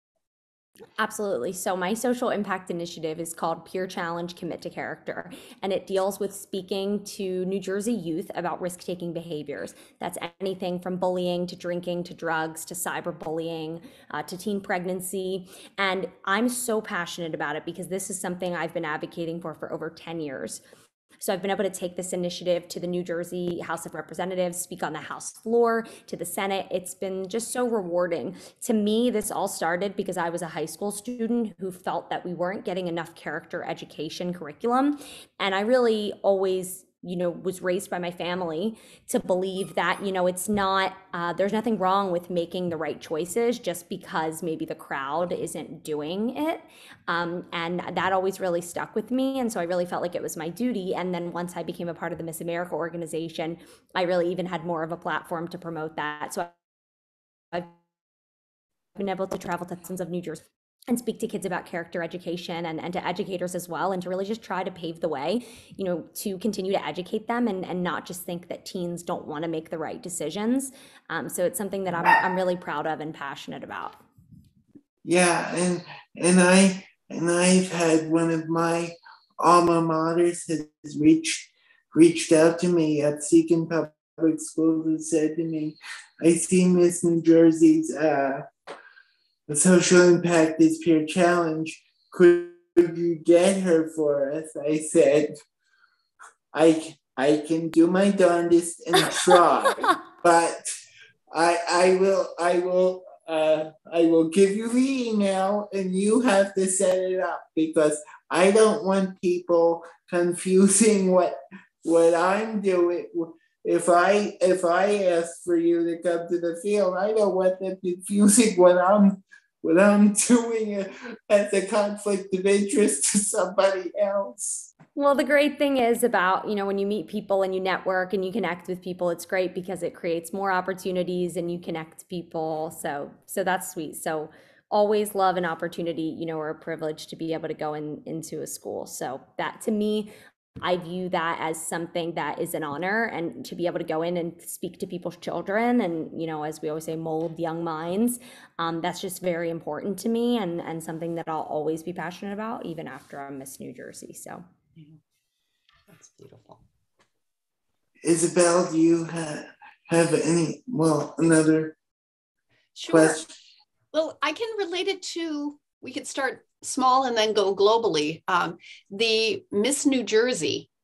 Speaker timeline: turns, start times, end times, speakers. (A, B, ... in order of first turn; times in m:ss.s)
0:01.0-0:20.6 A
0:21.2-0:56.6 A
0:59.0-1:14.0 A
1:15.0-1:28.5 B
1:29.5-1:35.3 B
1:36.5-1:40.6 B
1:41.3-2:04.7 B
2:05.0-2:34.4 A
2:35.9-2:36.6 C
2:38.0-2:41.8 B
2:42.8-2:43.2 C
2:42.9-2:43.3 B
2:43.9-2:50.7 C